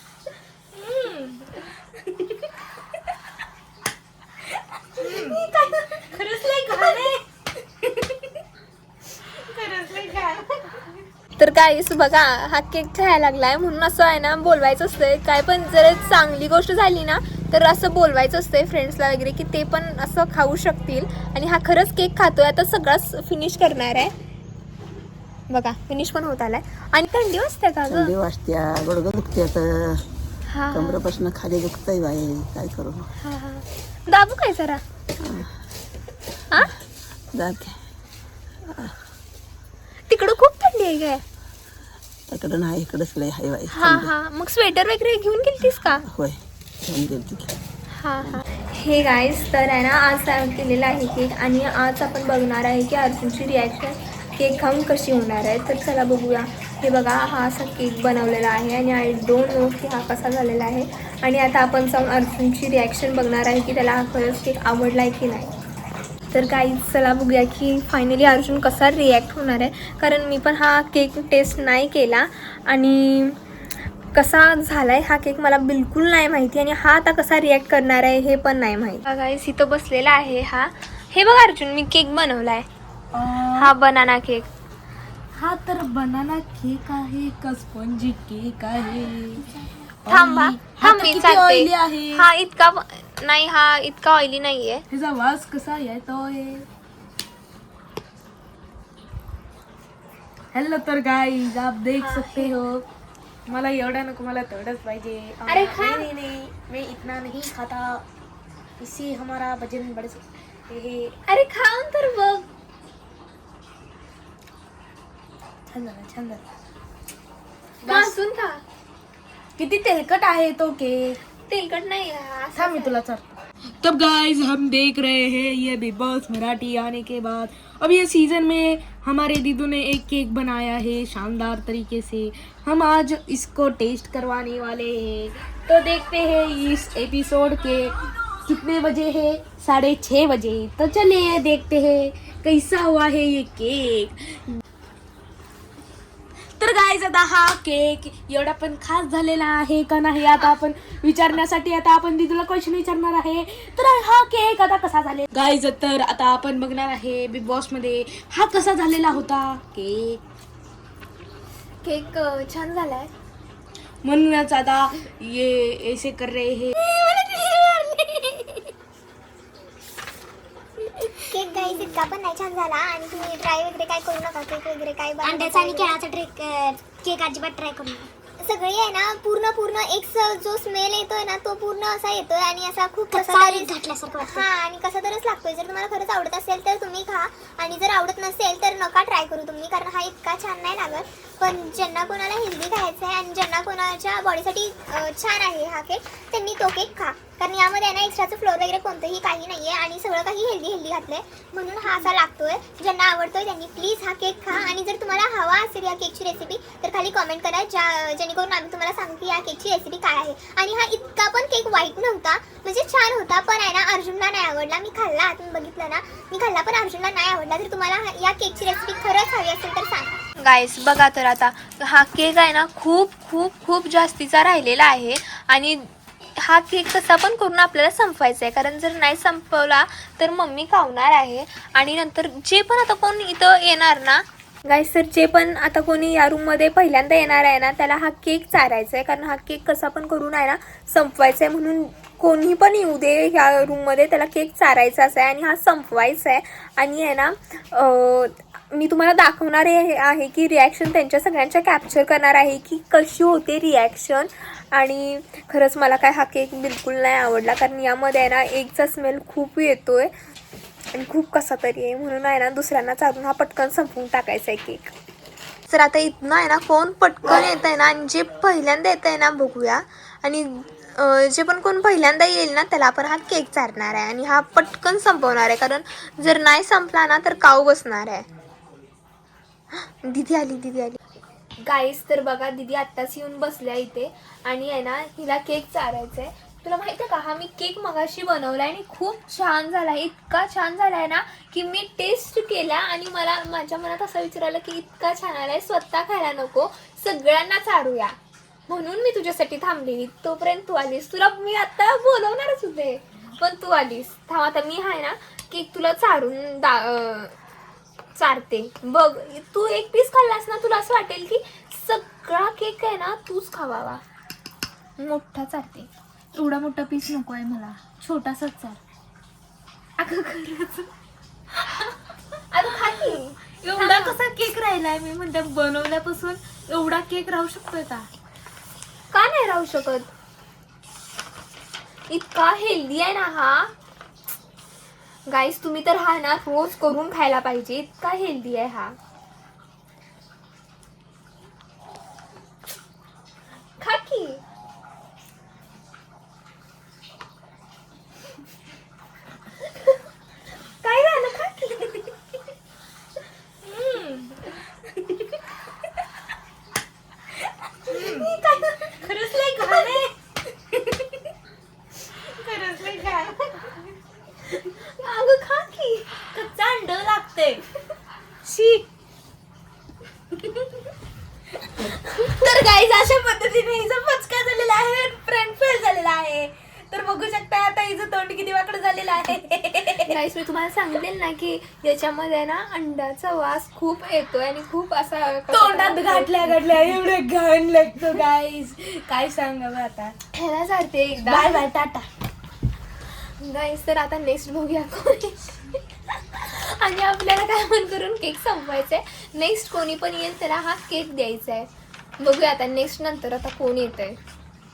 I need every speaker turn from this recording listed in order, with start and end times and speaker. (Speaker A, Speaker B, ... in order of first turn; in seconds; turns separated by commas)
Speaker A: 0.7-1.5, Speaker A: 5.0-7.2, Speaker B: 5.0-6.1, Speaker A: 7.8-8.1, Speaker A: 9.3-10.8, Speaker B: 11.4-24.1, Speaker B: 25.5-28.1, Speaker C: 27.9-30.1, Speaker B: 30.5-31.0, Speaker C: 30.7-33.1, Speaker B: 33.2-34.8, Speaker C: 35.2-35.5, Speaker C: 37.3-37.8, Speaker C: 38.7-38.9, Speaker B: 40.1-41.2, Speaker C: 42.3-44.1, Speaker B: 43.7-46.0, Speaker C: 46.1-47.5, Speaker B: 47.9-65.5, Speaker B: 66.3-73.4, Speaker B: 74.1-82.7, Speaker A: 83.1-83.7, Speaker B: 83.6-84.5, Speaker A: 85.3-89.5, Speaker A: 90.0-92.3, Speaker B: 90.1-94.8, Speaker A: 94.9-96.7, Speaker A: 100.5-102.8, Speaker B: 102.0-102.6, Speaker A: 103.5-108.0, Speaker B: 105.5-106.1, Speaker A: 108.8-111.1, Speaker B: 111.3-112.5, Speaker A: 115.7-116.4, Speaker A: 117.8-118.2, Speaker B: 117.9-118.6, Speaker A: 119.6-121.2, Speaker B: 121.4-123.0, Speaker A: 122.5-144.6, Speaker A: 146.6-160.2, Speaker B: 161.8-163.1, Speaker A: 164.0-166.7, Speaker B: 166.8-168.6, Speaker D: 171.3-176.0, Speaker E: 175.2-178.1, Speaker D: 178.4-220.1, Speaker E: 183.1-184.5, Speaker B: 220.4-260.1, Speaker B: 260.9-264.9, Speaker B: 265.7-278.2, Speaker B: 279.7-281.0, Speaker B: 281.6-298.1, Speaker B: 298.7-307.3, Speaker B: 308.1-314.0, Speaker B: 315.0-315.9, Speaker A: 316.3-318.8, Speaker A: 320.0-320.9, Speaker B: 322.5-324.2, Speaker A: 322.8-328.1, Speaker B: 329.1-330.1, Speaker B: 332.1-333.7, Speaker B: 335.2-339.0, Speaker B: 343.8-344.4, Speaker B: 350.8-352.1, Speaker A: 353.6-354.4, Speaker A: 357.9-358.4, Speaker B: 357.9-359.0, Speaker A: 358.9-360.1, Speaker A: 362.2-363.6, Speaker B: 364.7-366.2, Speaker A: 366.3-367.6, Speaker A: 368.4-368.8, Speaker A: 372.1-380.1, Speaker B: 380.1-386.6, Speaker A: 385.5-390.1, Speaker B: 390.3-391.6, Speaker A: 391.2-392.1, Speaker B: 393.4-401.7, Speaker B: 402.2-404.2